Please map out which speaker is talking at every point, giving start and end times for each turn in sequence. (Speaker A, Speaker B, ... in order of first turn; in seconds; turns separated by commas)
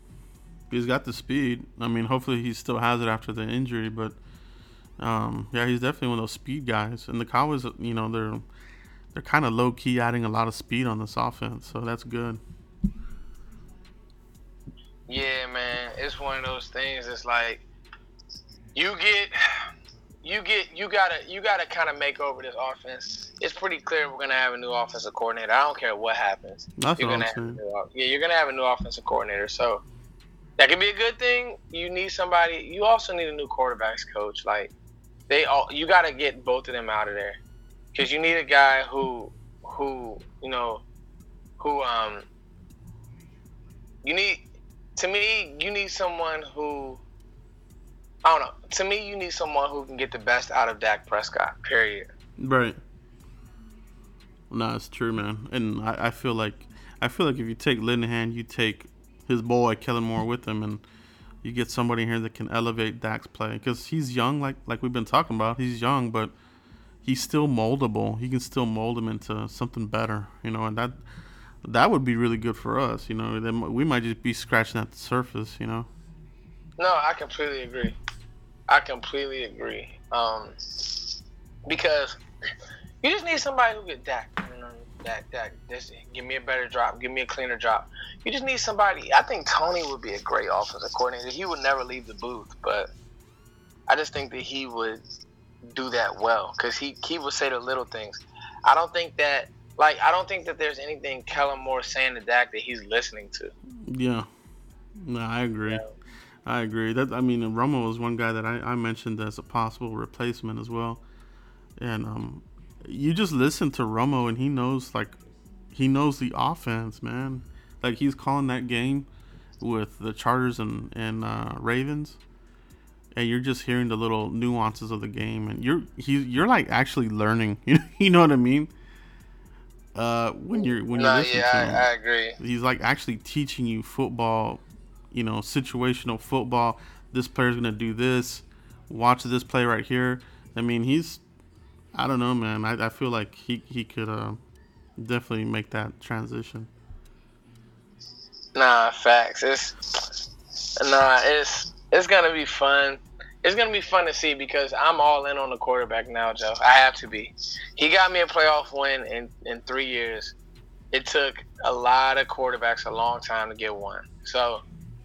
Speaker A: 0.7-4.2, Speaker A: 5.0-8.4, Speaker A: 9.1-12.4, Speaker B: 15.1-17.6, Speaker B: 18.7-19.3, Speaker B: 20.2-29.8, Speaker A: 26.8-27.6, Speaker B: 30.6-34.7, Speaker B: 35.3-37.4, Speaker B: 37.9-40.8, Speaker B: 41.6-42.2, Speaker B: 44.0-44.4, Speaker B: 45.0-47.0, Speaker B: 48.2-52.1, Speaker A: 52.4-52.8, Speaker A: 54.5-60.8, Speaker A: 61.4-66.3, Speaker A: 67.0-71.0, Speaker A: 71.6-75.9, Speaker B: 76.8-78.0, Speaker B: 78.7-81.0, Speaker B: 81.7-82.2, Speaker B: 83.0-92.9, Speaker B: 93.9-95.0, Speaker B: 95.7-103.5, Speaker A: 103.9-104.3, Speaker A: 105.0-105.8, Speaker B: 105.7-105.9, Speaker A: 106.5-111.0, Speaker A: 111.8-115.2, Speaker A: 115.7-119.1, Speaker A: 119.6-122.2, Speaker A: 123.1-128.7, Speaker A: 129.9-131.9, Speaker B: 130.5-132.4, Speaker A: 132.4-141.2, Speaker A: 141.9-144.4, Speaker A: 145.0-146.7, Speaker B: 148.5-150.1, Speaker B: 150.8-160.3, Speaker B: 160.9-164.6